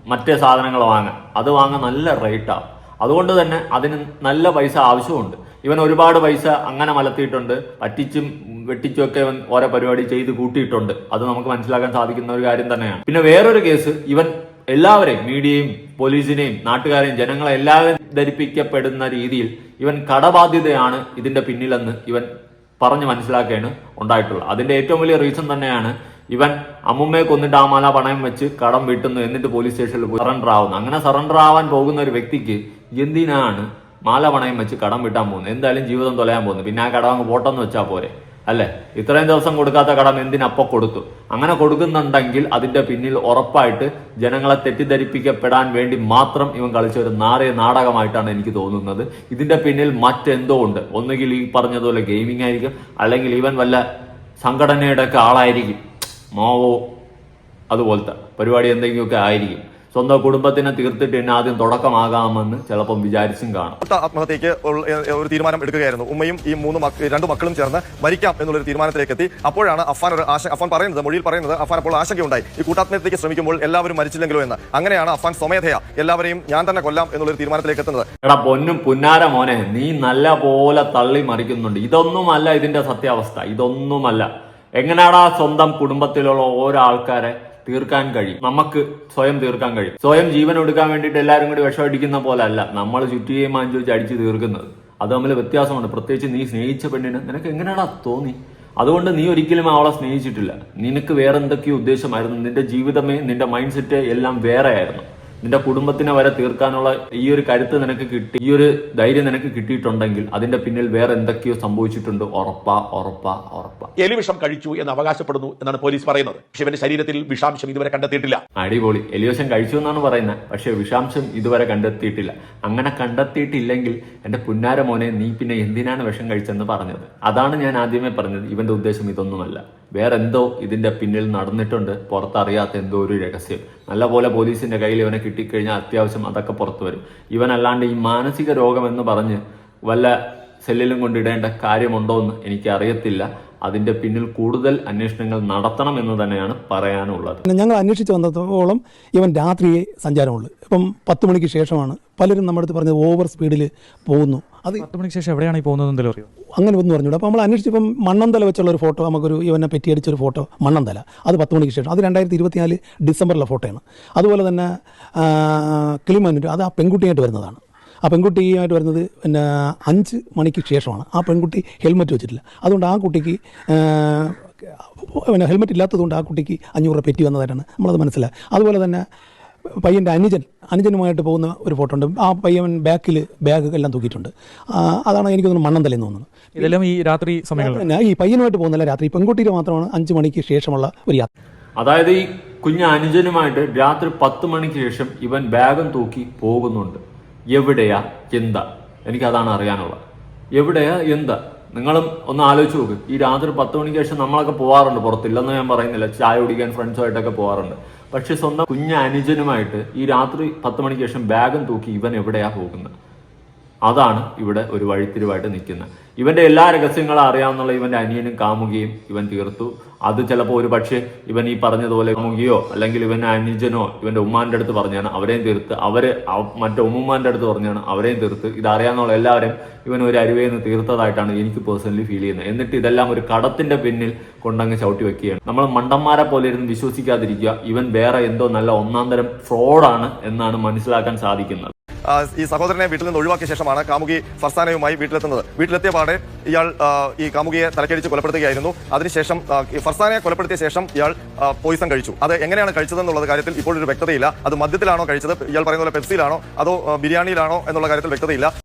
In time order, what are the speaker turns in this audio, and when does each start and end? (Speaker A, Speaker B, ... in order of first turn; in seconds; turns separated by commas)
Speaker A: 0.1-22.3, Speaker A: 22.8-53.8, Speaker A: 54.4-55.8, Speaker A: 56.3-56.8, Speaker A: 57.7-63.8, Speaker B: 63.8-78.1, Speaker A: 78.2-113.9, Speaker C: 114.0-118.4, Speaker A: 118.6-147.4, Speaker D: 147.4-154.8, Speaker E: 154.8-156.3, Speaker D: 156.6-174.4, Speaker D: 175.0-179.0, Speaker D: 179.8-186.8, Speaker E: 186.6-187.8, Speaker D: 187.6-191.3, Speaker A: 191.8-197.0, Speaker A: 197.5-200.0, Speaker A: 200.6-212.9, Speaker A: 213.9-241.7, Speaker B: 242.1-258.5